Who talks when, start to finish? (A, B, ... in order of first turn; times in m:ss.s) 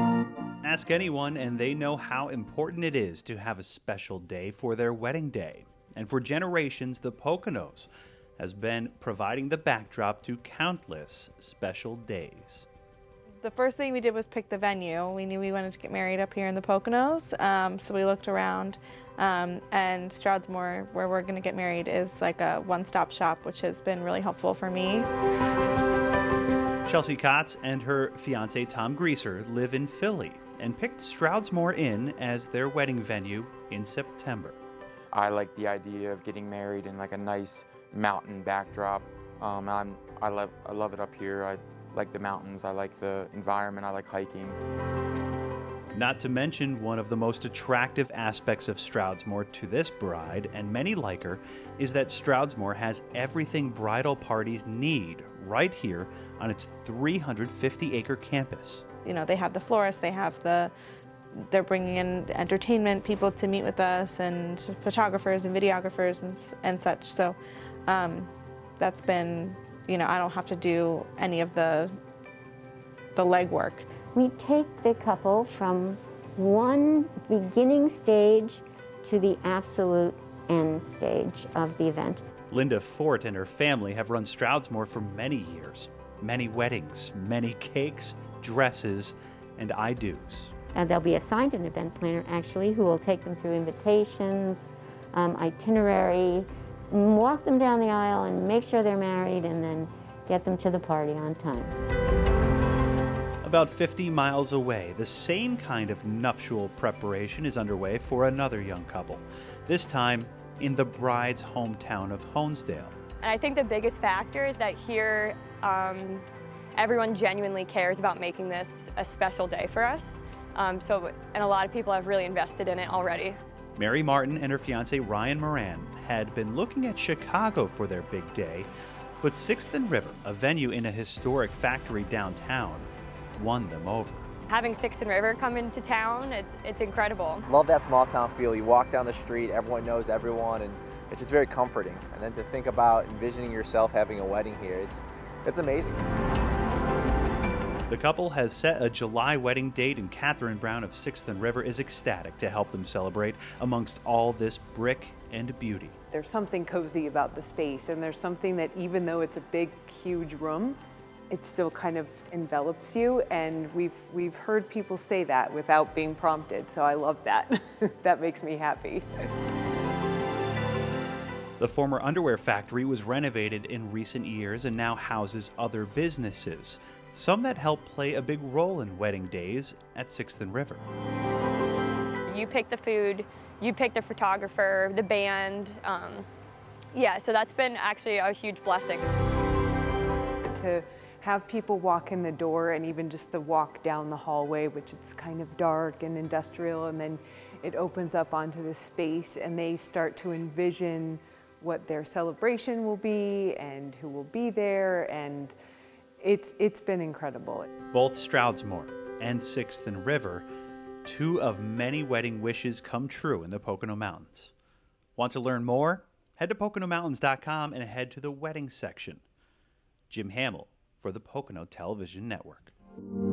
0:00.6-0:12.7 A
0:13.4-0:25.1 B
0:26.8-0:34.6 A
0:35.1-0:44.6 C
0:45.9-0:58.8 A
0:59.0-1:00.7 B
1:01.5-1:11.9 B
1:13.2-1:13.9 B
1:14.1-1:22.2 D
1:22.5-1:30.5 A
1:30.7-1:41.7 D
1:43.4-1:53.0 A
1:53.2-1:56.2 E
1:56.8-2:03.4 E
2:03.8-2:08.7 A
2:09.2-2:14.3 A
2:14.5-2:17.5 E
2:17.5-2:26.0 F
2:27.9-2:36.0 A
2:36.1-2:40.8 G
2:41.3-2:49.0 G
2:51.6-3:00.8 A
3:02.3-3:06.3 E
3:06.9-3:09.0 E
3:10.5-3:25.5 G
3:26.2-3:27.7 G
3:27.9-3:30.4 A
3:31.0-3:34.5 A
3:35.2-3:39.2 A
3:40.1-3:42.7 A